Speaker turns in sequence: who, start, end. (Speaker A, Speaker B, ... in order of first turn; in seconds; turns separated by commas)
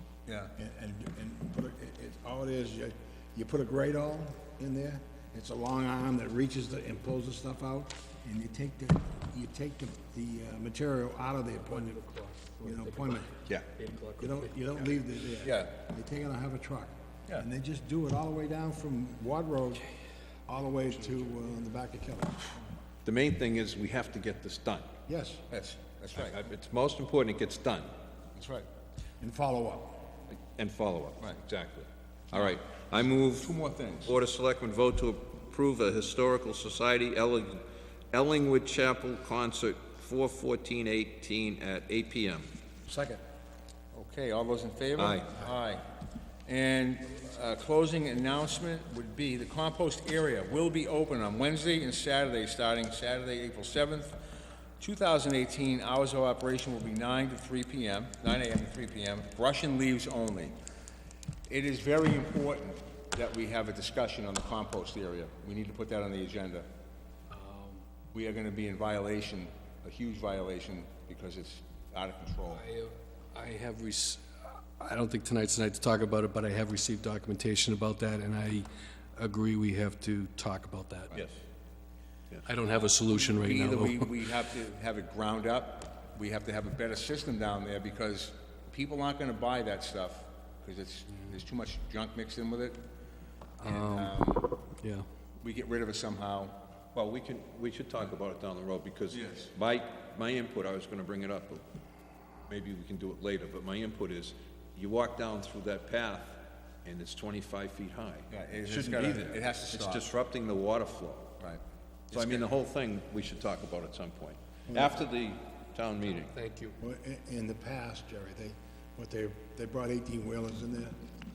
Speaker A: 0.2-0.5, Speaker B: 0.6-12.0, Speaker C: 11.6-14.5, Speaker B: 12.6-13.3, Speaker B: 14.2-19.8, Speaker A: 15.4-15.7, Speaker B: 20.4-22.6, Speaker D: 23.0-24.9, Speaker B: 25.1-25.4, Speaker A: 25.5-26.4, Speaker D: 26.1-27.9, Speaker A: 28.4-28.6, Speaker B: 29.2-30.1, Speaker D: 30.5-42.5, Speaker A: 33.2-34.1, Speaker B: 42.9-43.2, Speaker A: 43.9-45.8, Speaker D: 45.0-45.3, Speaker A: 46.5-54.2, Speaker A: 54.8-60.5, Speaker A: 61.5-66.7, Speaker C: 67.3-67.8, Speaker A: 68.1-72.6, Speaker C: 72.5-81.1, Speaker C: 82.5-84.2, Speaker A: 82.9-92.8, Speaker C: 93.6-95.0, Speaker A: 93.6-94.4, Speaker A: 95.4-96.6, Speaker D: 96.9-101.6, Speaker A: 99.1-99.5, Speaker D: 102.5-111.3, Speaker A: 108.3-110.1, Speaker A: 111.4-112.5, Speaker D: 112.1-116.3, Speaker B: 114.7-115.0, Speaker C: 116.2-116.7, Speaker B: 116.8-120.9